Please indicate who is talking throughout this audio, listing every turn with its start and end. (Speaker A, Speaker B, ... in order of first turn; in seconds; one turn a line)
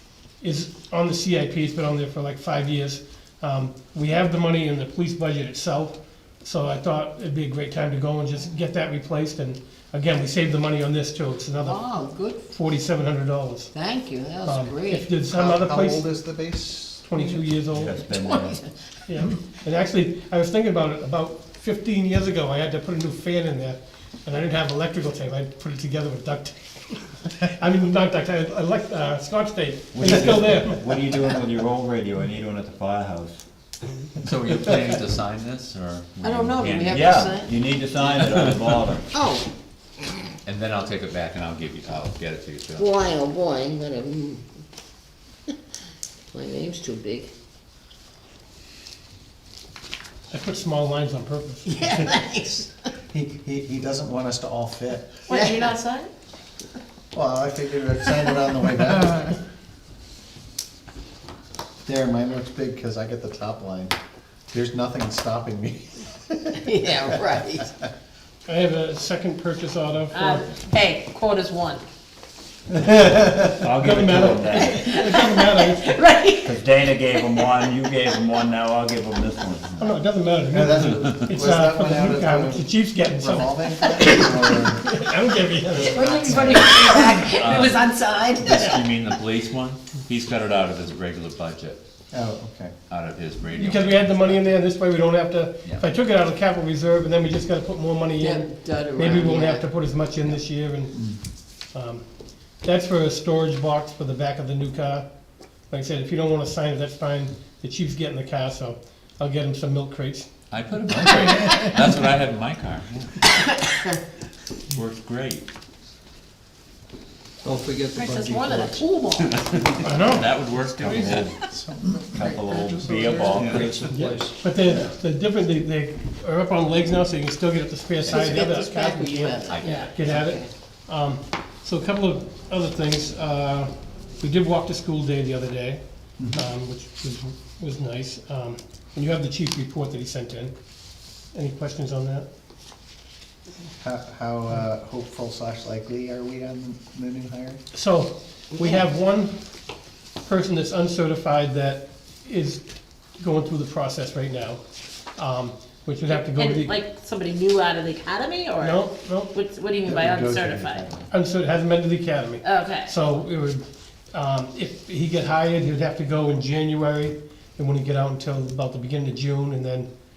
Speaker A: 0.4-11.8
Speaker B: 11.6-12.5
Speaker A: 12.4-13.7
Speaker B: 13.7-15.2
Speaker A: 14.4-16.1
Speaker C: 15.2-17.3
Speaker A: 17.1-18.0
Speaker D: 17.7-18.6
Speaker B: 18.1-18.7
Speaker A: 19.1-30.9
Speaker D: 29.9-33.4
Speaker E: 34.2-37.5
Speaker B: 36.2-37.6
Speaker D: 36.9-39.1
Speaker E: 38.0-38.8
Speaker B: 39.1-39.5
Speaker E: 40.4-42.9
Speaker B: 42.8-44.4
Speaker B: 46.3-47.3
Speaker A: 50.3-51.9
Speaker B: 51.6-52.7
Speaker C: 53.1-55.7
Speaker B: 55.3-56.1
Speaker C: 57.1-59.4
Speaker C: 61.8-63.9
Speaker C: 64.5-67.1
Speaker B: 66.6-67.7
Speaker A: 68.5-70.5
Speaker B: 70.1-71.8
Speaker C: 72.7-73.6
Speaker D: 73.6-74.8
Speaker A: 73.8-75.9
Speaker B: 74.5-76.6
Speaker D: 76.4-80.0
Speaker B: 77.2-77.6
Speaker A: 79.8-86.3
Speaker C: 80.5-84.9
Speaker C: 85.6-87.3
Speaker B: 85.8-88.9
Speaker E: 87.3-87.8
Speaker E: 88.3-91.8
Speaker C: 92.1-92.7
Speaker E: 92.9-94.6
Speaker A: 93.5-101.0
Speaker B: 98.2-99.6
Speaker A: 101.7-102.0
Speaker A: 102.6-105.0
Speaker A: 105.7-110.3
Speaker E: 110.5-113.5
Speaker C: 111.0-111.9
Speaker B: 111.0-111.6
Speaker E: 114.7-115.5
Speaker F: 117.4-118.9
Speaker B: 117.9-119.8
Speaker E: 119.2-121.3
Speaker A: 119.8-120.3
Speaker B: 120.8-121.5
Speaker C: 120.8-124.9
Speaker D: 122.1-123.8
Speaker F: 123.3-124.3
Speaker A: 123.9-133.7
Speaker B: 128.1-130.5
Speaker E: 129.5-129.9
Speaker A: 134.2-135.8
Speaker A: 136.3-140.5
Speaker A: 141.3-142.3
Speaker C: 143.8-147.6
Speaker A: 147.7-149.3
Speaker A: 150.2-152.6
Speaker A: 153.2-154.6
Speaker A: 155.2-156.8
Speaker B: 156.1-160.9
Speaker A: 158.6-159.3
Speaker C: 159.8-161.1
Speaker A: 161.1-169.9
Speaker B: 162.4-162.9